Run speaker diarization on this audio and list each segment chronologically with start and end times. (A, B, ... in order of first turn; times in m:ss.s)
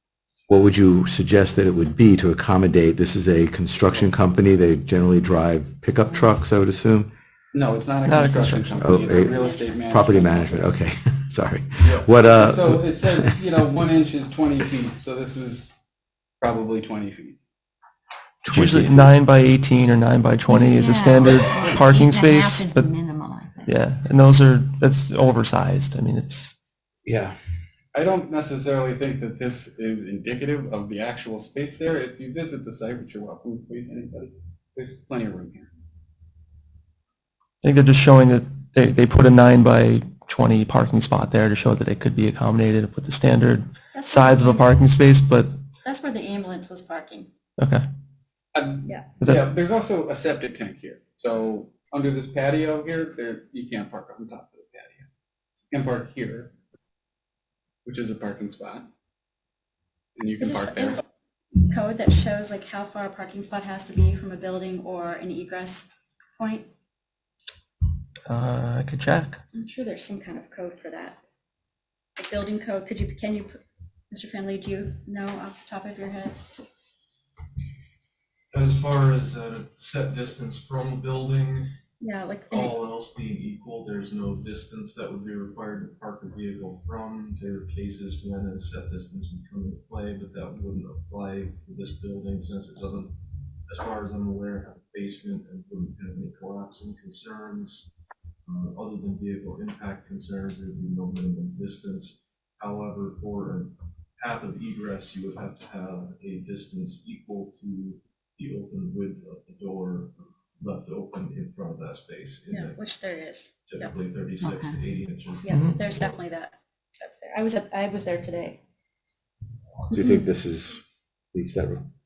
0:00.5-0:07.1 A
0:07.5-0:10.8 B
0:08.0-0:08.9 C
0:08.8-0:09.4 A
0:08.9-0:09.8 D
0:09.9-0:12.9 A
0:11.8-0:15.7 B
0:16.4-0:17.4 B
0:18.4-0:22.8 C
0:18.5-0:19.1 A
0:20.5-0:23.8 E
0:23.7-0:26.5 C
0:27.0-0:27.4 A
0:27.9-0:35.7 B
0:37.6-0:45.5 C
0:43.9-0:44.8 D
0:45.8-0:47.3 D
0:47.6-0:47.8 C
0:48.5-0:55.1 B
0:55.7-0:56.5 B
0:57.8-0:58.9 B
1:00.2-1:01.0 B
1:00.4-1:01.0 D
1:01.6-1:06.7 D
1:08.3-1:09.4 C
1:09.5-1:11.2 D
1:12.2-1:13.6 D
1:14.1-1:16.5 D
1:18.5-1:21.7 F
1:22.0-1:22.7 D
1:22.5-1:33.2 F
1:33.7-1:37.9 F
1:38.5-1:52.8 F
1:52.5-1:53.9 D
1:53.7-1:55.6 F
1:54.4-1:54.8 E
1:55.4-1:58.6 D
1:55.5-1:55.8 C
1:59.9-2:00.8 A
2:01.3-2:01.9 A